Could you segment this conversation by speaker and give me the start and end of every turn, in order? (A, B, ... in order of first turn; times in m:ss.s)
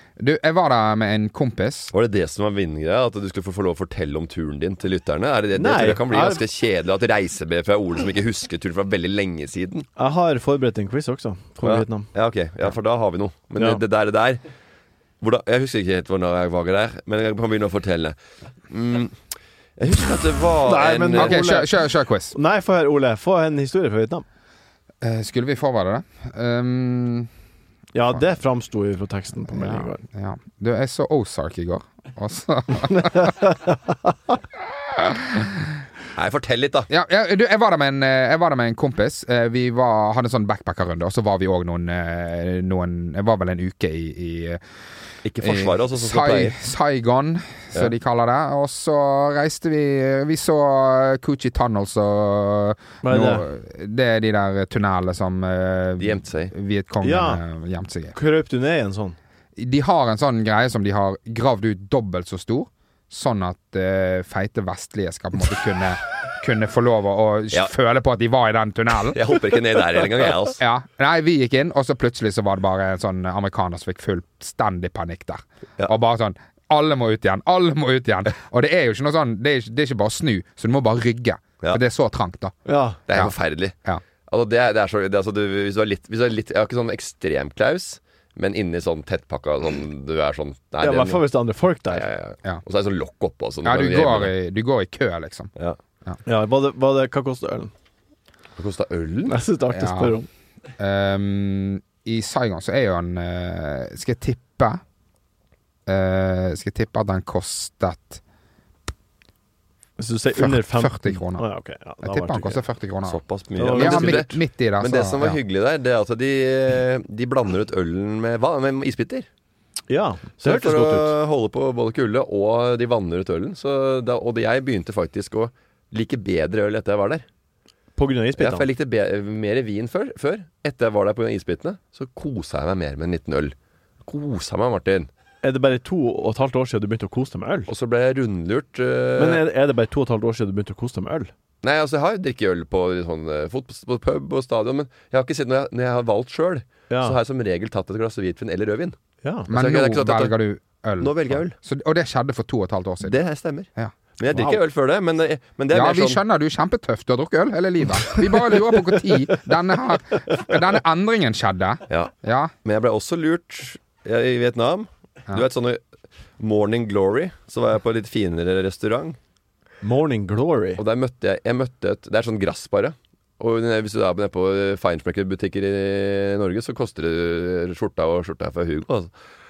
0:00.2-0:01.9 A
0:01.9-0:09.9 B
0:05.5-0:06.4 C
0:10.0-0:12.1 C
0:11.6-0:14.4 B
0:13.6-0:13.8 C
0:15.2-0:18.2 B
0:18.7-0:19.2 B
0:19.8-0:21.4 B
0:20.6-0:21.7 C
0:21.1-0:22.4 A
0:22.3-0:24.2 C
0:25.0-0:27.3 A
0:27.9-0:30.0 C
0:29.5-0:33.3 A
0:32.9-0:33.7 C
0:35.0-0:35.5 A
0:36.1-0:36.9 B
0:36.9-0:44.6 A
0:45.2-0:46.5 B
0:45.4-0:58.2 A
0:53.0-0:53.4 C
0:56.0-0:56.5 B
0:57.0-0:57.4 C
0:58.1-0:59.2 C
0:59.6-1:09.2 A
1:09.1-1:10.6 B
1:10.6-1:22.5 A
1:22.6-1:23.0 C
1:23.1-1:23.8 B
1:24.3-1:31.2 B
1:30.8-1:32.0 C
1:31.9-1:34.3 B
1:33.6-1:35.5 A
1:36.2-1:37.7 C
1:38.6-1:39.4 B
1:39.3-1:40.3 C
1:39.7-1:40.2 A
1:40.8-1:44.8 A
1:45.9-1:48.2 A
1:50.0-1:52.6 C
1:50.3-1:51.4 A
1:52.0-1:55.4 A
1:53.0-1:59.3 B
1:53.6-1:54.3 C
1:59.9-2:01.1 C
2:00.4-2:07.2 B
2:08.0-2:08.7 C
2:08.4-2:15.1 B
2:15.4-2:17.7 C
2:17.7-2:19.4 B
2:19.2-2:21.3 C
2:21.6-2:29.0 B
2:26.9-2:27.2 C
2:29.2-2:29.5 C
2:29.5-2:33.2 A
2:29.5-2:30.4 B
2:31.0-2:31.6 B
2:33.0-2:36.2 B
2:34.3-2:34.6 C
2:35.7-2:42.5 A
2:42.6-2:45.8 B
2:46.4-2:49.2 B
2:49.8-2:50.8 C
2:50.8-2:59.1 B